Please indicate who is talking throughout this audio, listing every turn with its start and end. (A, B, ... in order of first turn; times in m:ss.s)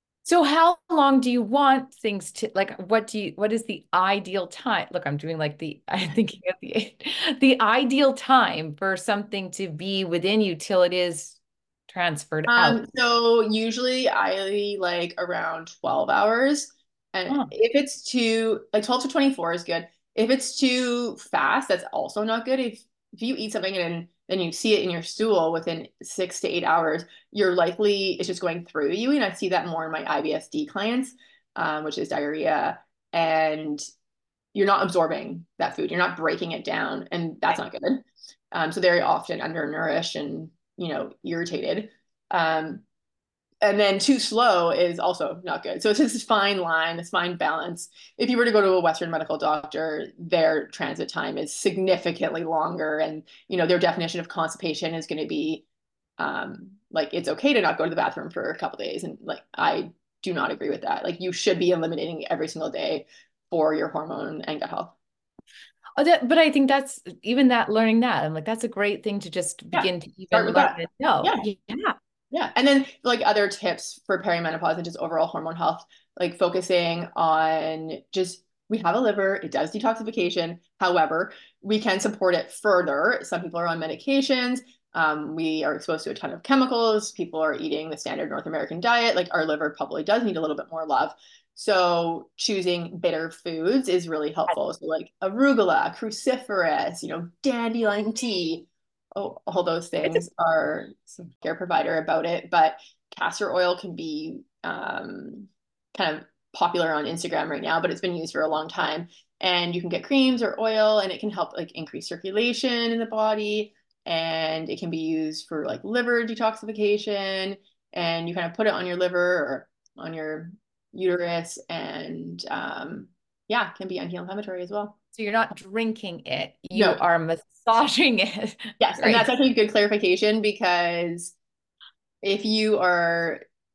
0:00.2-0:11.4 A
0:11.9-0:12.8 A
0:12.5-0:33.8 B
0:34.5-0:42.8 B
0:43.6-0:55.6 B
0:56.2-1:04.9 B
1:06.0-1:12.0 A
1:09.7-1:11.4 B
1:12.3-2:05.0 B
2:05.1-2:09.3 A
2:06.7-2:07.0 B
2:08.8-2:11.3 B
2:12.2-2:13.4 B